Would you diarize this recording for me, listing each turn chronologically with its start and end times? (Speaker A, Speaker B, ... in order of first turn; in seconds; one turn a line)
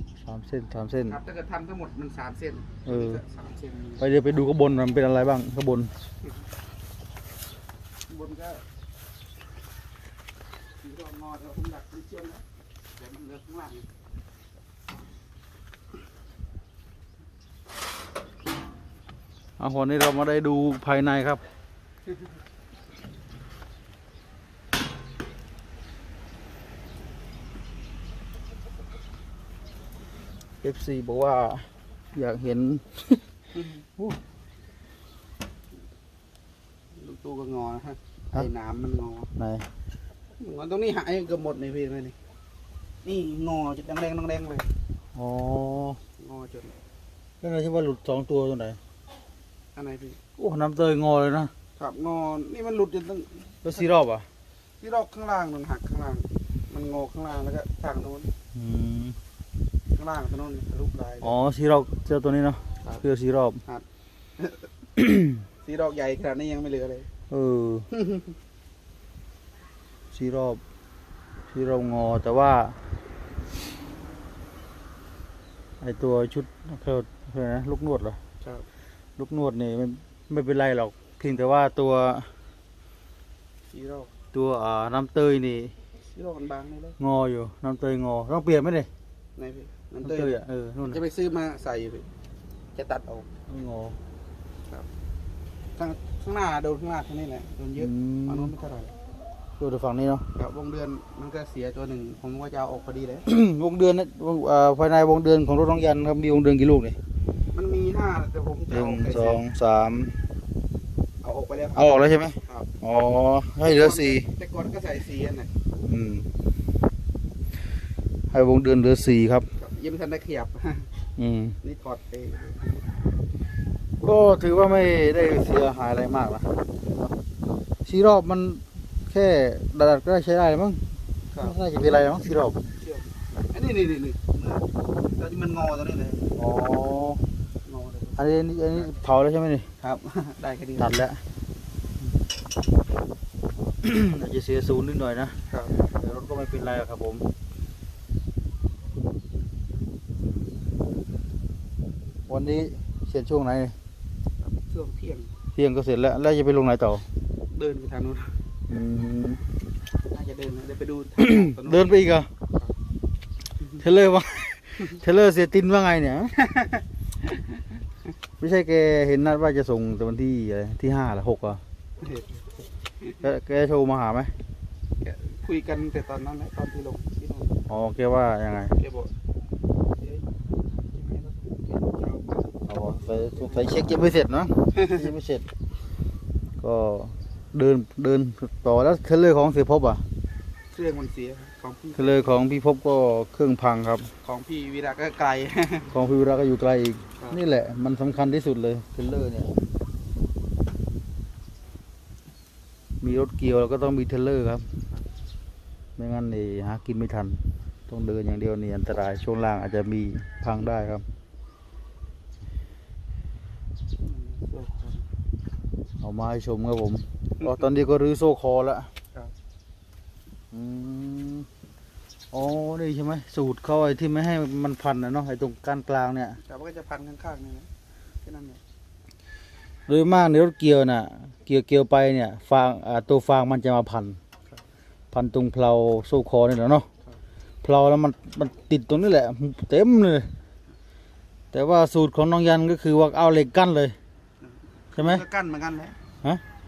Speaker A: 0.2-1.2
Speaker B: 1.1-4.0
Speaker A: 2.9-3.2
Speaker A: 4.0-5.9
Speaker B: 8.1-8.6
Speaker B: 10.8-12.4
Speaker B: 13.0-13.9
Speaker A: 19.6-21.4
Speaker A: 30.6-33.2
Speaker B: 33.5-33.8
Speaker B: 36.9-39.3
Speaker A: 39.4-39.7
Speaker B: 40.4-42.2
Speaker B: 43.0-44.7
Speaker A: 45.1-46.0
Speaker B: 46.2-46.8
Speaker A: 47.4-48.8
Speaker B: 49.8-50.2
Speaker A: 50.4-51.5
Speaker B: 51.8-53.9
Speaker A: 53.6-54.3
Speaker B: 54.8-58.3
Speaker A: 58.5-59.2
Speaker B: 60.0-61.4
Speaker A: 61.2-63.6
Speaker B: 64.4-64.7
Speaker B: 65.6-67.1
Speaker A: 67.3-67.9
Speaker B: 67.9-68.3
Speaker A: 70.1-70.6
Speaker A: 71.5-72.8
Speaker A: 75.8-78.2
Speaker B: 78.4-78.7
Speaker A: 79.2-82.3
Speaker B: 83.7-84.1
Speaker A: 84.3-85.7
Speaker B: 86.1-87.0
Speaker A: 87.0-88.9
Speaker B: 89.4-90.4
Speaker A: 90.0-91.0
Speaker B: 90.9-92.1
Speaker B: 92.8-93.3
Speaker A: 93.5-94.0
Speaker B: 95.8-98.9
Speaker A: 97.8-98.5
Speaker A: 99.6-100.3
Speaker B: 100.3-103.3
Speaker A: 103.3-107.0
Speaker B: 107.5-109.4
Speaker A: 108.7-110.2
Speaker B: 111.2-112.7
Speaker A: 111.8-114.3
Speaker B: 113.7-115.5
Speaker A: 115.8-116.3
Speaker A: 118.3-119.5
Speaker B: 119.6-120.9
Speaker A: 121.2-121.6
Speaker B: 121.6-123.0
Speaker A: 124.0-126.5
Speaker A: 127.8-130.8
Speaker B: 131.3-131.6
Speaker A: 131.4-132.6
Speaker B: 132.7-136.3
Speaker A: 136.4-137.2
Speaker B: 137.7-138.9
Speaker A: 138.2-139.7
Speaker B: 139.8-140.9
Speaker A: 140.8-141.2
Speaker A: 143.8-145.4
Speaker B: 145.5-145.9
Speaker A: 145.9-147.3
Speaker A: 152.3-153.8
Speaker B: 154.4-155.4
Speaker A: 155.6-157.1
Speaker B: 157.5-158.4
Speaker A: 158.7-159.4
Speaker B: 160.1-162.7
Speaker A: 161.2-162.3
Speaker A: 163.8-166.4
Speaker B: 166.4-167.6
Speaker A: 168.4-171.6
Speaker B: 172.0-172.4
Speaker A: 173.2-174.3
Speaker B: 175.0-177.7
Speaker A: 177.7-178.8
Speaker B: 178.7-179.1
Speaker B: 180.0-183.7
Speaker A: 182.7-185.5
Speaker B: 184.7-185.1
Speaker A: 186.6-190.1
Speaker B: 190.7-192.4
Speaker A: 191.9-194.1
Speaker B: 194.2-195.9
Speaker A: 195.9-199.5
Speaker A: 203.0-204.7
Speaker A: 206.0-211.1
Speaker B: 214.0-215.1
Speaker A: 216.0-218.9
Speaker A: 220.5-221.5
Speaker A: 222.3-226.4
Speaker B: 226.4-227.7
Speaker B: 228.2-228.6
Speaker A: 229.9-234.2
Speaker A: 235.1-236.9
Speaker A: 237.6-240.3
Speaker A: 241.5-244.0
Speaker B: 244.4-246.0
Speaker A: 245.0-245.2